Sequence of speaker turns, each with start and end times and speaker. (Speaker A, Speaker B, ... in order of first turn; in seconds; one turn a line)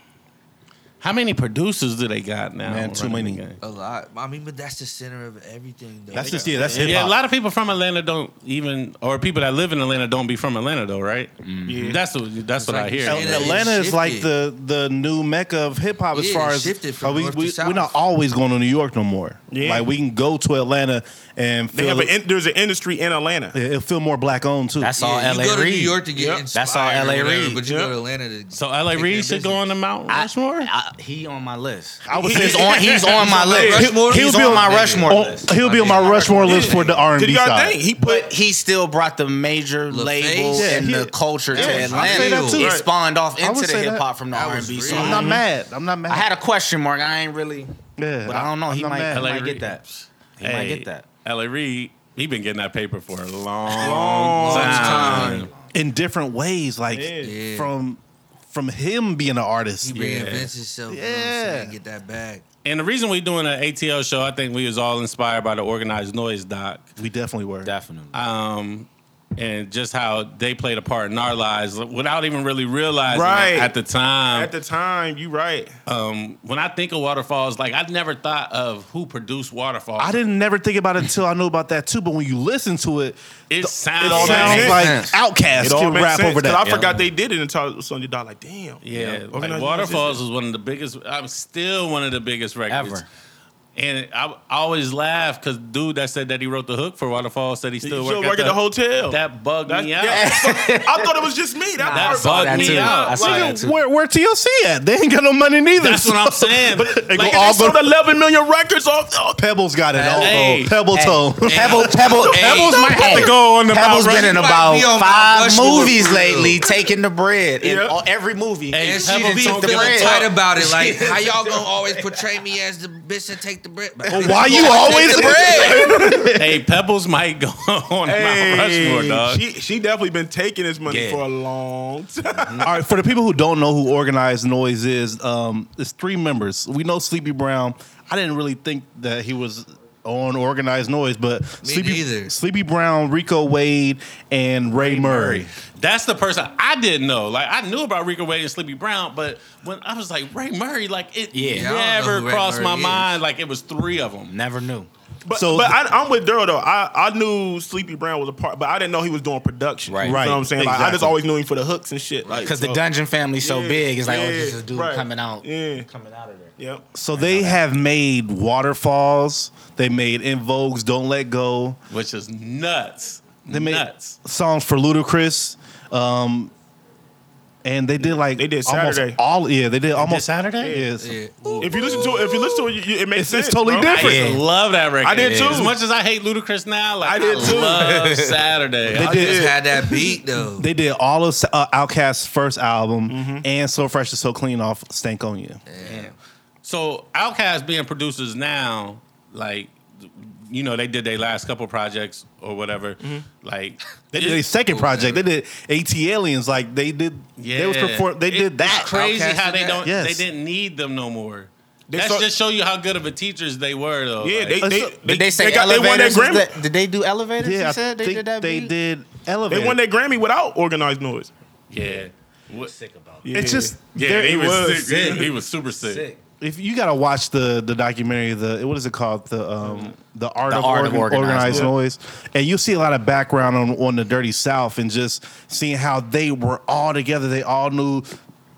Speaker A: 1.0-3.6
Speaker B: 2.6-3.4
Speaker C: 3.6-6.9
Speaker B: 6.1-7.2
Speaker D: 6.2-6.8
Speaker A: 6.7-13.6
Speaker E: 11.4-12.0
Speaker D: 11.7-12.0
Speaker C: 12.6-14.3
Speaker B: 13.1-22.1
Speaker C: 16.1-17.9
Speaker D: 19.5-19.9
Speaker D: 21.7-23.6
Speaker B: 23.5-24.9
Speaker E: 24.8-27.6
Speaker C: 24.9-29.6
Speaker D: 26.1-26.4
Speaker D: 27.6-27.9
Speaker A: 28.5-30.7
Speaker E: 30.1-37.0
Speaker B: 32.1-33.1
Speaker D: 32.1-33.9
Speaker C: 33.2-35.1
Speaker B: 33.7-37.8
Speaker C: 35.6-36.4
Speaker D: 36.4-38.3
Speaker E: 38.0-45.4
Speaker C: 39.9-40.8
Speaker B: 40.5-42.9
Speaker D: 41.5-42.9
Speaker C: 41.6-42.7
Speaker B: 43.4-44.1
Speaker C: 44.3-45.3
Speaker B: 44.9-46.3
Speaker D: 45.1-45.4
Speaker E: 46.1-47.7
Speaker B: 48.0-49.3
Speaker E: 48.2-49.8
Speaker A: 49.1-55.5
Speaker E: 50.4-51.0
Speaker D: 53.7-55.5
Speaker C: 53.8-55.5
Speaker B: 55.7-60.0
Speaker D: 56.9-57.3
Speaker C: 57.2-57.7
Speaker C: 59.8-62.4
Speaker A: 60.0-60.5
Speaker B: 60.9-61.8
Speaker A: 62.6-66.9
Speaker B: 67.0-67.7
Speaker E: 67.6-68.2
Speaker A: 68.1-74.5
Speaker D: 73.1-73.7
Speaker D: 74.3-75.7
Speaker A: 75.9-80.2
Speaker B: 80.0-86.9
Speaker A: 83.5-84.8
Speaker D: 84.0-84.8
Speaker E: 84.2-85.2
Speaker D: 85.6-90.2
Speaker A: 88.8-93.1
Speaker E: 88.9-89.2
Speaker E: 92.7-93.1
Speaker A: 93.8-100.3
Speaker D: 97.8-103.4
Speaker E: 100.1-101.2
Speaker E: 101.8-103.8
Speaker A: 101.9-103.6
Speaker B: 103.1-107.9
Speaker A: 105.8-107.1
Speaker D: 106.8-109.4
Speaker B: 109.4-112.1
Speaker E: 110.0-122.0
Speaker A: 110.2-110.8
Speaker C: 111.5-113.0
Speaker A: 112.3-114.4
Speaker C: 114.0-116.7
Speaker D: 117.6-118.0
Speaker A: 118.7-120.4
Speaker C: 118.8-125.9
Speaker B: 124.1-126.6
Speaker D: 124.3-126.3
Speaker A: 126.3-129.4
Speaker D: 128.1-132.8
Speaker E: 130.9-131.2
Speaker B: 132.6-145.5
Speaker C: 141.6-142.3
Speaker A: 144.7-154.3
Speaker E: 151.3-151.7
Speaker C: 151.6-153.1
Speaker E: 154.3-154.9
Speaker D: 155.2-162.8
Speaker B: 155.3-155.8
Speaker E: 159.9-160.2
Speaker B: 160.0-161.2
Speaker C: 162.2-162.5
Speaker E: 162.4-166.5
Speaker D: 163.4-165.9
Speaker D: 166.6-166.8
Speaker B: 166.9-171.8
Speaker E: 167.2-167.6
Speaker A: 171.9-174.2
Speaker B: 173.5-176.5
Speaker B: 177.6-182.0
Speaker D: 178.4-179.2
Speaker A: 180.0-180.8
Speaker D: 180.6-180.9
Speaker C: 181.0-181.7
Speaker D: 181.6-184.1
Speaker B: 183.2-184.2
Speaker A: 183.9-189.3
Speaker E: 183.9-184.4
Speaker D: 185.0-185.8
Speaker D: 187.0-187.9
Speaker E: 187.4-188.4
Speaker B: 188.9-189.8
Speaker D: 188.9-189.5
Speaker C: 189.0-190.7
Speaker B: 190.4-195.6
Speaker D: 193.1-193.4
Speaker C: 195.7-196.1
Speaker E: 195.8-196.1
Speaker A: 196.6-204.4
Speaker B: 204.1-208.9
Speaker C: 204.7-205.2
Speaker A: 207.4-214.6
Speaker C: 208.7-209.8
Speaker B: 209.8-210.3
Speaker D: 211.9-212.3
Speaker D: 214.2-216.6
Speaker B: 214.6-215.0
Speaker E: 215.1-218.7
Speaker B: 217.4-219.8
Speaker D: 219.5-221.3
Speaker A: 221.7-222.7
Speaker E: 222.7-223.6
Speaker D: 223.2-225.3
Speaker B: 223.3-224.9
Speaker A: 223.9-226.1
Speaker E: 225.8-226.2
Speaker B: 226.4-238.1
Speaker D: 229.6-229.9
Speaker E: 230.5-231.7
Speaker D: 231.5-231.7